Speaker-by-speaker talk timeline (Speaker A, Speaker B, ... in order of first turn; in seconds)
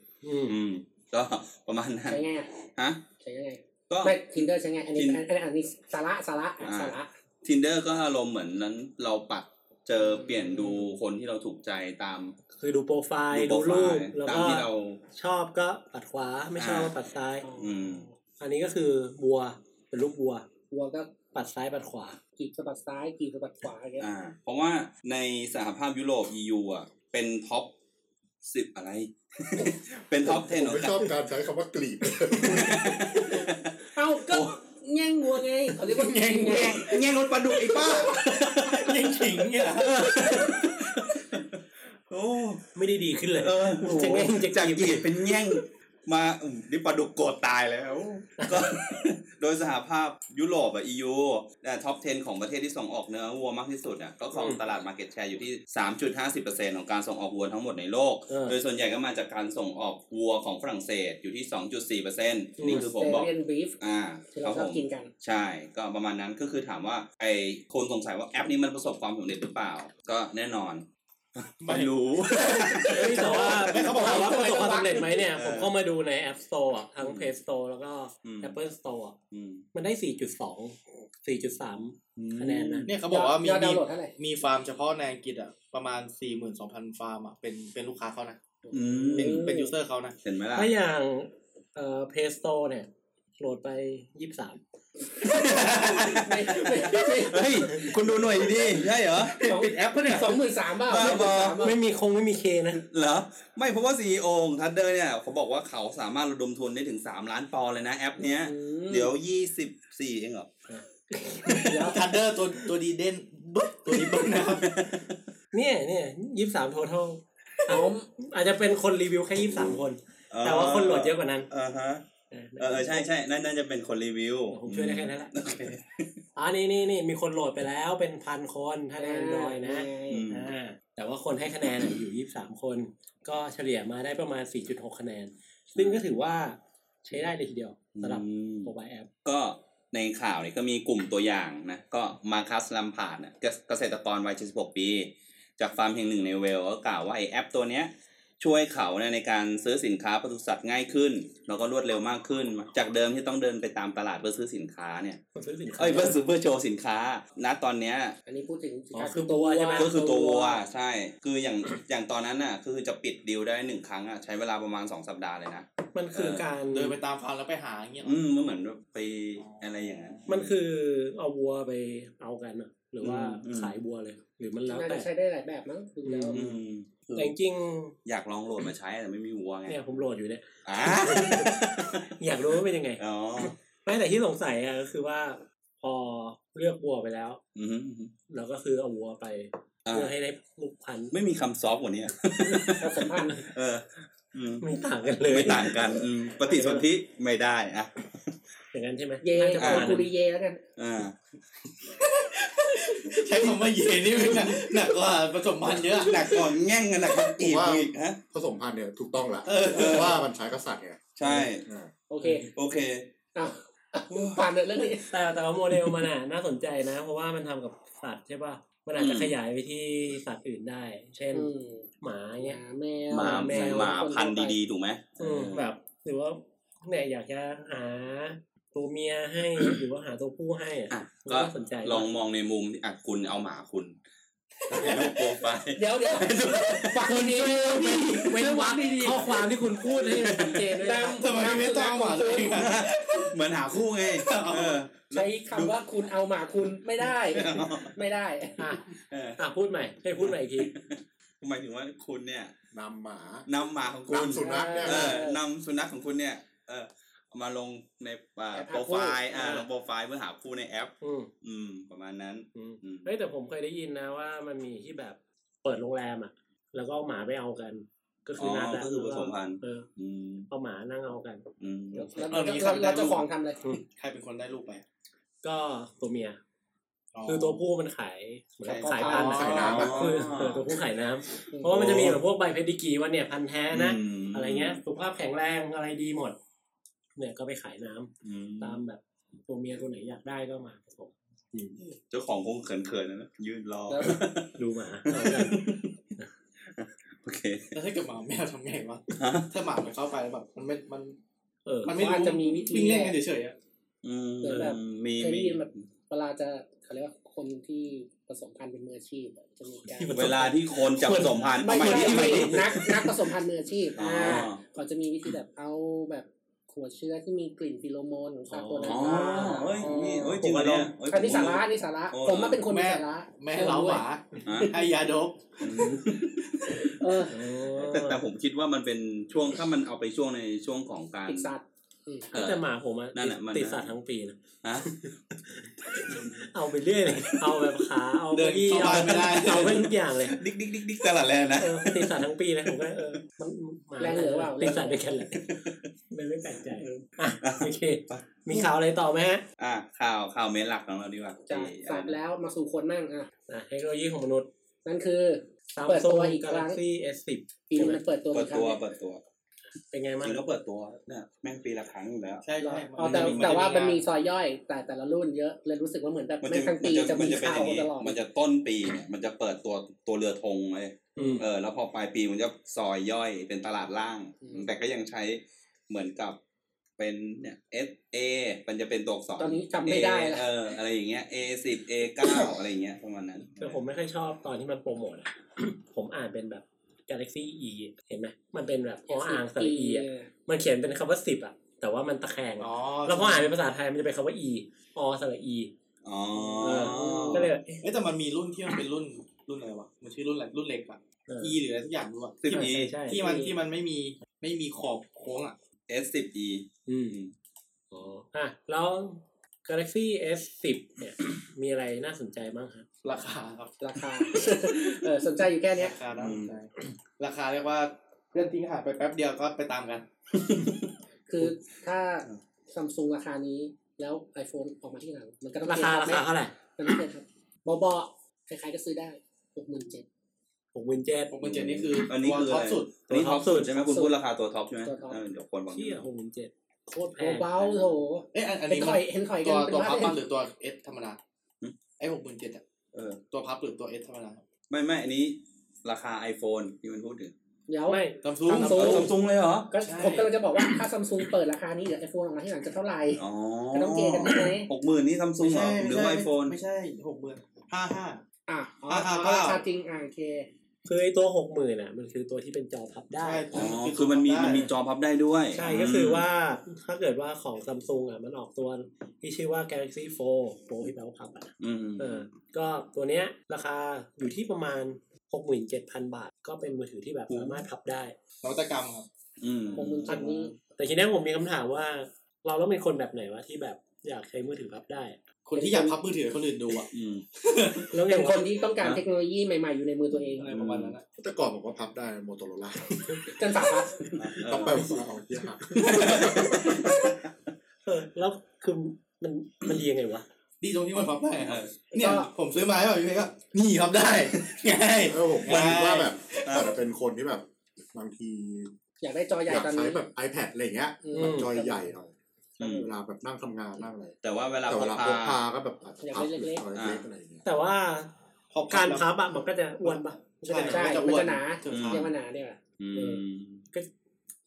Speaker A: 0.2-0.6, 12.6-17.6, 18.2-20.5, 21.3-22.2, 39.8-40.6, 42.8-45.1, 48.4-48.7, 54.3-54.6, 58.3-58.6, 62.6-62.9, 72.9-79.2, 79.7-82.9, 88.9-89.4, 90.5-94.6, 101.6-102.8, 110.7-112.0, 115.5-121.5, 122.3-123.1, 124.5-125.3, 126.4-139.1, 155.3-156.2, 158.9-160.0, 165.9-167.0, 170.3-175.1, 176.1-176.6, 177.2-178.0, 179.7-181.6, 182.2-187.4, 188.3-191.2, 192.5-193.4, 194.6-196.8, 198.7-200.1, 212.2-212.5, 215.0-222.6, 223.2-224.0, 225.2-232.1, 237.0-241.3, 249.4-250.7, 259.4-259.7, 261.0-261.3, 262.6-269.9, 270.5-272.3, 275.4-276.4, 277.3-286.4, 287.2-291.8, 294.6-296.3, 301.7-302.0, 304.5-304.8, 309.8-313.1, 314.2-314.5, 318.5-320.9, 327.3-328.2, 332.3-340.4, 341.6-349.4, 353.5-354.5, 355.7-358.0, 359.9-360.4, 371.2-371.4, 383.6-395.7, 396.6-397.8, 401.3-401.6, 402.5-403.5, 406.9-407.2, 407.9-412.9, 425.6-426.6, 430.7-431.3, 433.1-434.1, 435.7-437.8, 447.9-449.1, 460.9-463.7, 465.5-478.1, 480.1-485.2, 487.9-488.4, 495.7-496.1, 497.9-500.2, 511.1-511.5, 517.5-518.1, 518.7-521.0
Speaker B: 0.5-2.2, 3.9-4.4, 5.0-5.2, 6.6-12.4, 13.3-15.0, 16.6-16.9, 17.5-18.1, 24.0-27.8, 28.4-31.1, 32.4-33.7, 36.4-39.2, 40.0-42.6, 43.4-73.5, 75.3-75.7, 77.0-77.3, 78.2-78.5, 79.3-79.7, 82.2-82.9, 88.7-89.4, 90.2-90.7, 95.3-99.4, 100.8-101.7, 102.7-110.5, 114.5-115.2, 119.3-119.8, 120.3-122.0, 122.6-126.1, 130.1-130.5, 135.8-136.0, 137.9-138.7, 139.2-155.2, 155.8-158.2, 159.8-166.5, 168.0-170.5, 173.0-173.8, 176.3-177.3, 178.1-179.8, 180.7-182.1, 183.0-183.6, 187.6-188.1, 189.9-190.1, 191.1-194.7, 195.2-198.1, 199.6-200.1, 200.8-201.2, 206.0-208.2, 209.4-210.2, 211.2-211.7, 212.5-213.1, 214.1-214.4, 219.0-219.3, 223.1-225.7, 230.9-233.9, 234.7-237.2, 240.0-240.8, 242.5-245.8, 247.3-247.9, 249.1-249.4, 250.2-252.5, 253.5-263.1, 268.4-270.5, 271.6-272.1, 279.4-280.7, 281.7-282.2, 283.7-284.8, 288.2-288.8, 292.1-295.9, 296.6-297.8, 299.1-299.5, 304.0-305.8, 310.1-313.0, 314.0-314.6, 318.8-322.6, 324.4-324.7, 325.6-326.9, 327.7-331.5, 332.3-333.9, 334.6-334.9, 336.0-336.4, 337.2-337.6, 340.3-342.9, 345.4-345.8, 346.8-348.7, 349.6-352.2, 358.3-359.2, 360.2-362.4, 363.0-363.6, 366.4-376.4, 377.0-383.8, 396.0-397.5, 402.4-403.0, 405.9-407.3, 416.1-416.5, 420.3-420.9, 431.4-436.1, 442.9-443.2, 444.7-447.3, 448.6-449.7, 453.2-456.6, 463.5-466.2, 471.6-472.3, 477.3-477.6, 479.4-480.5, 486.9-487.3, 490.5-490.9, 494.1-494.9, 496.0-496.9, 501.4-501.8, 506.5-506.7, 512.6-512.9, 514.2-515.4, 516.8-517.1, 521.7-522.1, 522.8-523.6
Speaker C: 2.1-2.5, 3.2-7.1, 10.0-10.8, 17.4-17.9, 20.7-21.1, 22.4-24.1, 34.0-36.9, 62.6-63.8, 64.3-65.1, 73.0-75.2, 83.1-84.2, 88.7-89.7, 95.2-98.0, 99.4-101.8, 108.2-109.1, 111.7-112.0, 117.7-118.1, 129.0-130.2, 158.3-160.6, 174.7-176.4, 192.8-193.4, 199.2-200.6, 212.1-212.5, 213.3-215.1, 221.3-221.9, 222.4-224.6, 235.8-239.5, 240.8-242.6, 245.1-248.8, 254.2-255.4, 258.5-259.6, 272.0-273.7, 281.5-282.0, 293.9-294.2, 301.9-303.2, 304.4-310.5, 311.6-320.4, 321.1-324.0, 326.8-327.4, 331.3-332.3, 344.0-345.0, 351.5-353.3, 354.9-356.8, 357.7-358.8, 362.6-368.2, 371.2-371.4, 374.4-374.7, 379.4-380.5, 389.1-390.3, 396.6-397.5, 403.1-403.4, 413.8-416.0, 421.3-430.1, 434.8-435.2, 437.2-440.2, 447.7-449.1, 449.7-454.7, 458.5-460.5, 479.8-480.5, 485.6-486.0, 488.1-490.5, 493.3-494.1, 501.9-502.3, 509.0-510.0, 511.0-511.9, 516.0-516.6, 520.5-523.2
Speaker D: 30.2-33.0, 207.4-211.9, 252.7-253.5, 254.1-255.2, 279.2-280.0, 491.2-493.3, 494.4-496.9, 505.1-508.7, 509.5-514.2, 514.7-517.5
Speaker E: 35.9-37.0, 37.6-40.1, 71.6-74.9, 82.9-88.4, 89.2-90.2, 95.3-96.1, 99.2-100.4, 111.5-114.7, 166.7-168.2, 169.4-170.2, 201.9-206.4, 234.7-235.2, 241.1-243.3, 244.2-244.8, 272.3-273.3, 273.9-274.8, 277.1-277.6, 278.7-280.2, 297.7-301.2, 301.9-303.6, 322.7-325.9, 338.3-339.9, 362.4-364.0, 392.6-393.6, 397.3-405.6, 413.0-413.8, 415.7-420.1, 431.3-432.9, 438.3-441.2, 442.0-442.6, 443.3-444.4, 448.2-449.1, 449.8-450.3, 455.4-458.2, 458.9-459.6, 463.2-464.7, 478.4-479.1, 485.4-488.0, 490.3-491.1, 495.8-496.8, 500.6-506.5, 518.5-519.1, 519.8-522.1